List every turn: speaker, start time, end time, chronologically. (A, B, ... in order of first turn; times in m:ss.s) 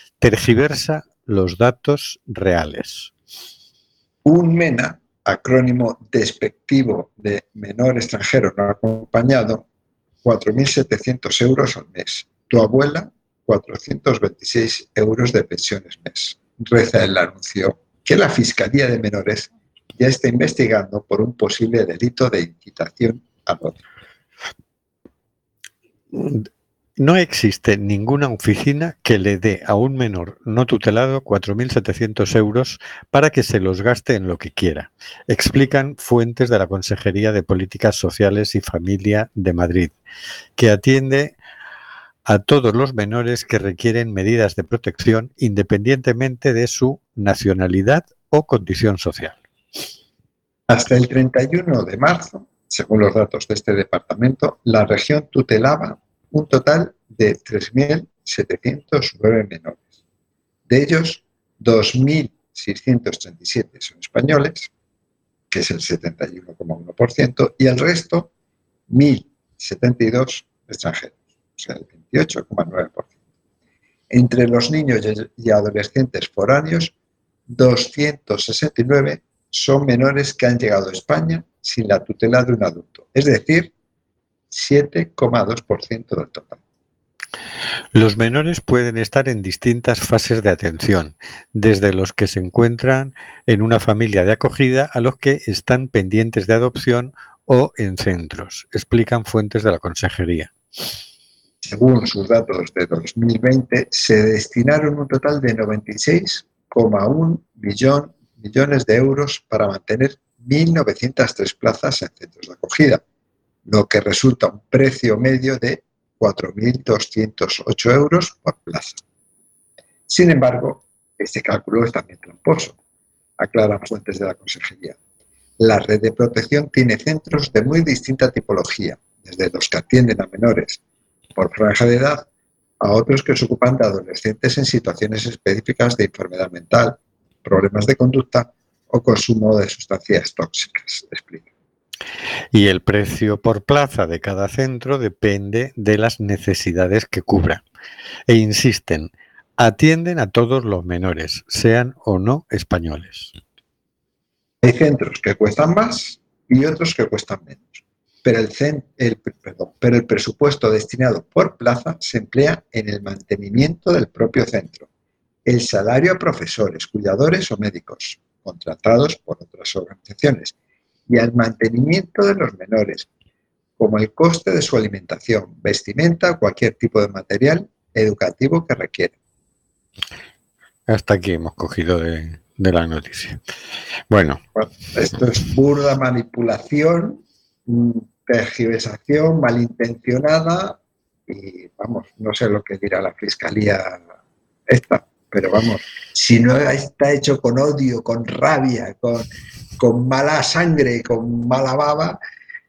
0:00.2-0:03.1 A
0:04.2-0:09.6 B
0:10.2-0:23.8 B
0:26.1-0:26.5 A
0:27.0-0:39.9 A
0:40.6-0:41.4 A
0:42.3-0:49.4 A
0:50.7-0:59.8 B
1:00.7-1:04.7 B
1:05.5-1:08.3 B
1:08.9-1:13.1 B
1:14.1-1:16.9 B
1:17.5-1:23.7 B
1:24.5-1:26.6 B
1:27.9-1:40.5 A
1:41.6-1:53.0 B
1:53.7-1:59.0 B
2:00.1-2:02.8 B
2:03.4-2:05.0 B
2:05.6-2:10.8 B
2:11.4-2:12.3 B
2:12.8-2:21.5 B
2:22.5-2:27.6 A
2:28.3-2:33.3 A
2:34.6-2:44.9 B
2:45.4-2:50.5 B
2:51.1-2:53.1 B
2:53.8-2:59.2 B
3:00.9-3:03.4 A
3:04.1-3:04.4 A
3:04.5-3:14.0 B
3:14.7-3:22.2 B